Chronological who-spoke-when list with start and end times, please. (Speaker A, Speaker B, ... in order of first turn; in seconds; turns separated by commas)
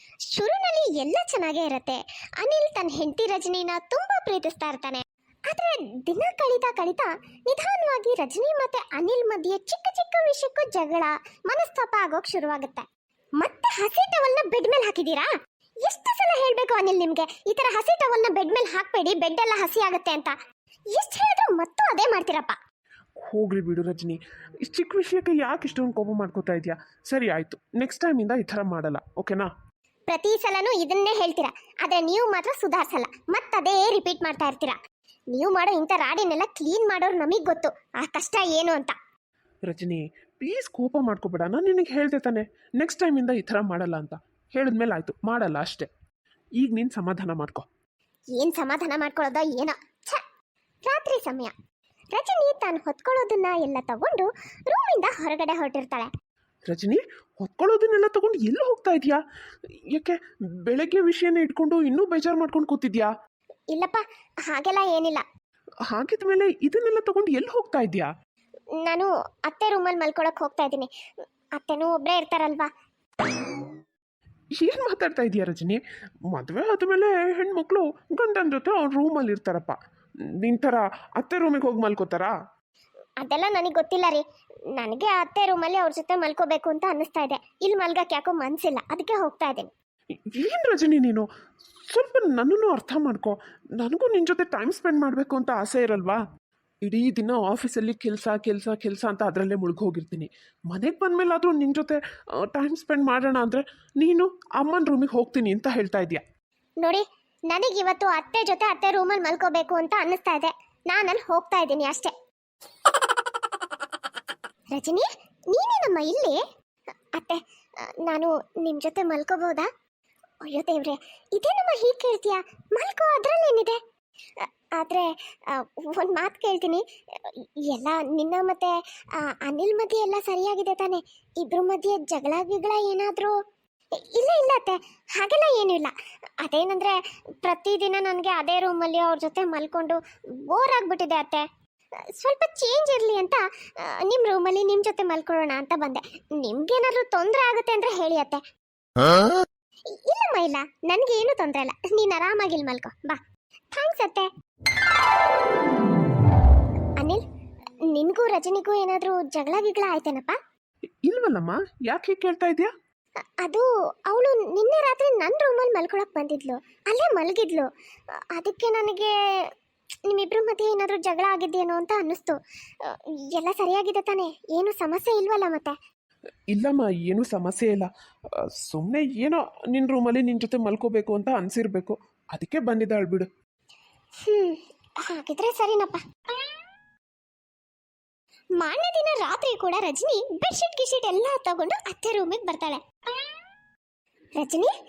Speaker A: 0.3-12.8, Speaker A: 13.4-15.3, Speaker A: 15.8-20.3, Speaker A: 20.9-22.6, Speaker B: 23.2-29.5, Speaker A: 30.1-34.8, Speaker A: 35.3-38.9, Speaker B: 39.7-45.9, Speaker B: 46.6-47.6, Speaker A: 48.3-50.2, Speaker A: 50.9-51.5, Speaker A: 52.1-56.1, Speaker B: 56.7-59.2, Speaker B: 59.9-63.1, Speaker A: 63.7-65.2, Speaker B: 65.9-68.1, Speaker A: 68.8-70.9, Speaker A: 71.5-72.7, Speaker B: 74.6-75.8, Speaker B: 76.3-79.8, Speaker B: 80.4-82.3, Speaker A: 83.2-84.2, Speaker A: 84.8-89.7, Speaker B: 90.4-91.2, Speaker B: 91.9-96.2, Speaker B: 96.8-106.2, Speaker A: 106.8-112.1, Speaker A: 114.7-116.4, Speaker A: 117.1-119.7, Speaker A: 120.4-123.8, Speaker A: 124.4-133.3, Speaker A: 134.0-141.4, Speaker A: 142.2-148.4, Speaker A: 149.9-153.2, Speaker A: 153.7-154.3, Speaker A: 157.9-160.4, Speaker B: 161.1-162.7, Speaker A: 163.4-167.7, Speaker A: 168.3-169.5, Speaker A: 170.1-175.7, Speaker B: 176.5-177.9, Speaker B: 178.6-183.3, Speaker A: 184.2-186.5, Speaker A: 188.6-193.3, Speaker A: 194.4-194.7